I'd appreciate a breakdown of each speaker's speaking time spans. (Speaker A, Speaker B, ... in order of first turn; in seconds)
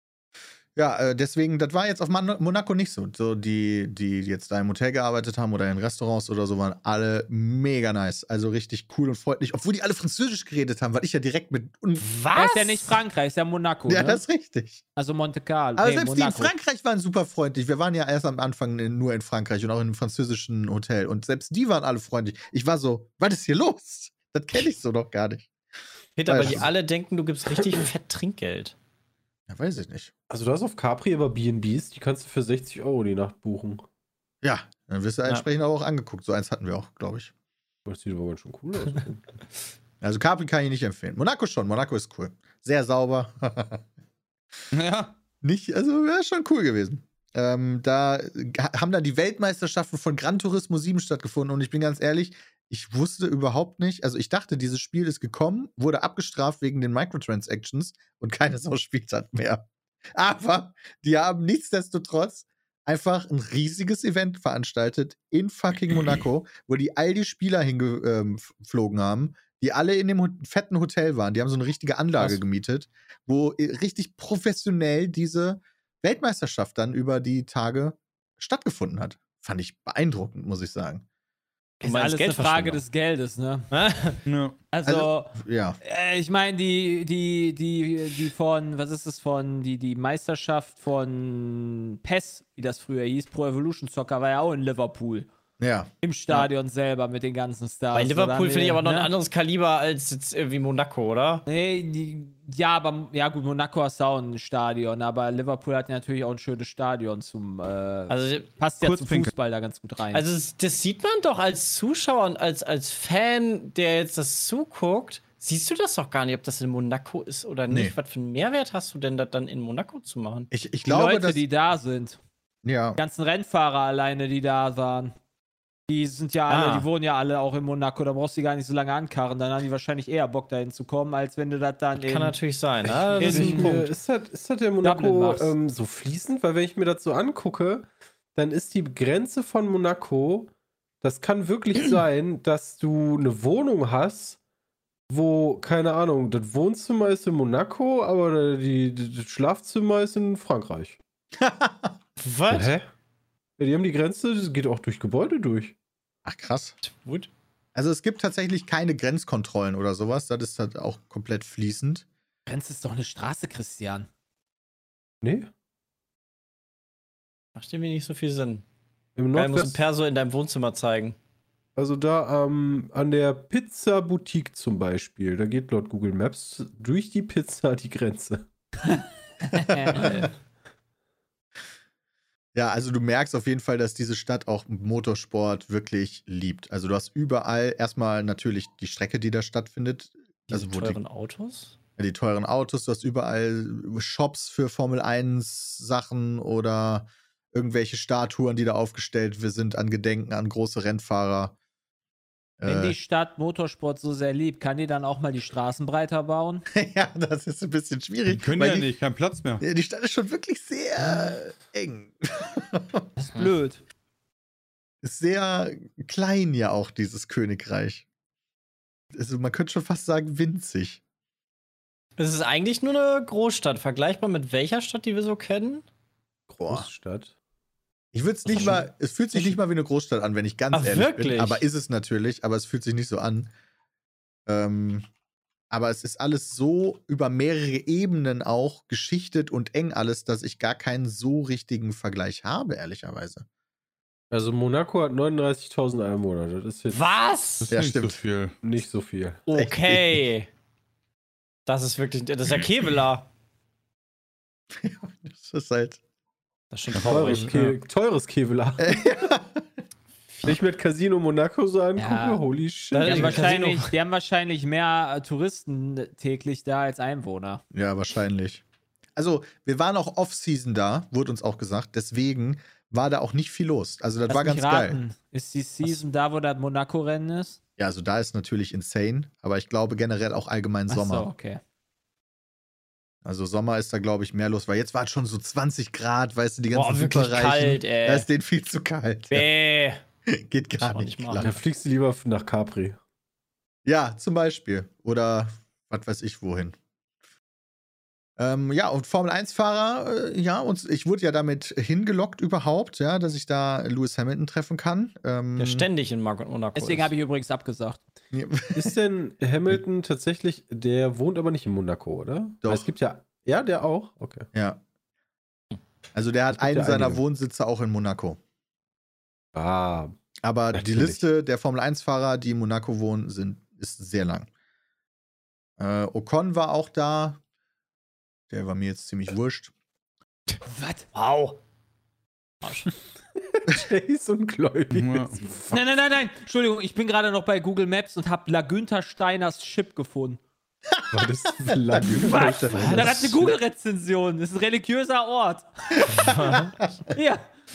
Speaker A: 0.8-12.1, 13.9-14.8, 15.8-25.5, 26.2-26.7, 29.5-30.1, 34.4-37.3, 40.0-43.8, 45.4-81.0, 84.8-85.8, 95.6-95.9, 117.7-118.0, 120.5-121.4, 122.6-123.0, 151.4-151.9, 156.2-156.7, 157.7-162.0, 179.6-180.3, 182.5-191.0, 192.0-201.5, 202.6-202.9, 206.7-208.9, 209.6-213.1, 215.0-218.0, 219.1-221.0, 226.6-226.9, 228.1-233.5, 234.5-235.1, 235.7-243.4, 247.7-248.2, 249.5-250.2, 254.7-256.0, 258.8-259.6, 267.7-268.6, 269.1-275.0, 277.8-281.3, 283.2-289.5, 290.2-291.5, 293.8-296.8, 298.4-305.9, 308.3-308.9, 312.6-312.9, 314.5-314.8, 316.1-318.4, 320.4-324.5, 325.8-327.4, 328.5-329.7, 340.9-343.5
Speaker B: 12.0-12.9, 26.2-28.7, 81.8-82.8, 83.7-84.2, 97.9-101.5, 108.1-108.5, 110.1-120.5, 126.5-126.9, 131.9-133.9, 152.2-152.7, 156.8-157.3, 167.6-168.6, 169.3-171.2, 180.0-180.3, 190.5-191.8, 222.2-225.8, 228.5-228.8, 230.7-231.6, 246.9-247.7, 249.5-250.5, 251.7-253.3, 256.7-257.5, 262.9-263.9, 286.7-288.3, 289.3-290.0, 290.8-291.6, 305.6-307.1, 331.1-331.5, 332.6-332.9, 346.1-346.7
Speaker C: 12.3-14.2, 14.9-16.5, 81.8-83.7, 84.7-95.3, 96.0-99.1, 101.5-110.2, 120.8-122.2, 123.0-125.1, 125.9-132.4, 133.2-133.8, 134.8-135.5, 162.4-164.1, 178.9-180.1, 202.7-206.7, 213.2-213.8, 261.9-262.4, 263.0-267.6, 274.3-277.6, 280.9-281.6, 306.8-308.0, 330.7-331.1, 335.7-340.4, 342.3-346.3, 347.1-347.4
Speaker D: 30.3-33.8, 37.9-39.2, 132.8-144.4, 145.1-151.0, 152.5-152.9, 153.6-155.7, 165.2-165.5, 169.2-169.8, 171.8-178.4, 226.5-227.3, 244.3-247.0, 248.6-249.4, 257.1-259.0, 260.4-263.5, 291.4-293.0, 308.7-314.5, 316.5-317.2, 319.5-320.1, 320.7-321.2, 333.4-335.8, 341.1-343.5
Speaker E: 44.7-45.1, 84.2-84.5, 108.8-109.3, 208.3-209.6, 247.6-248.6, 256.9-257.8, 334.9-335.4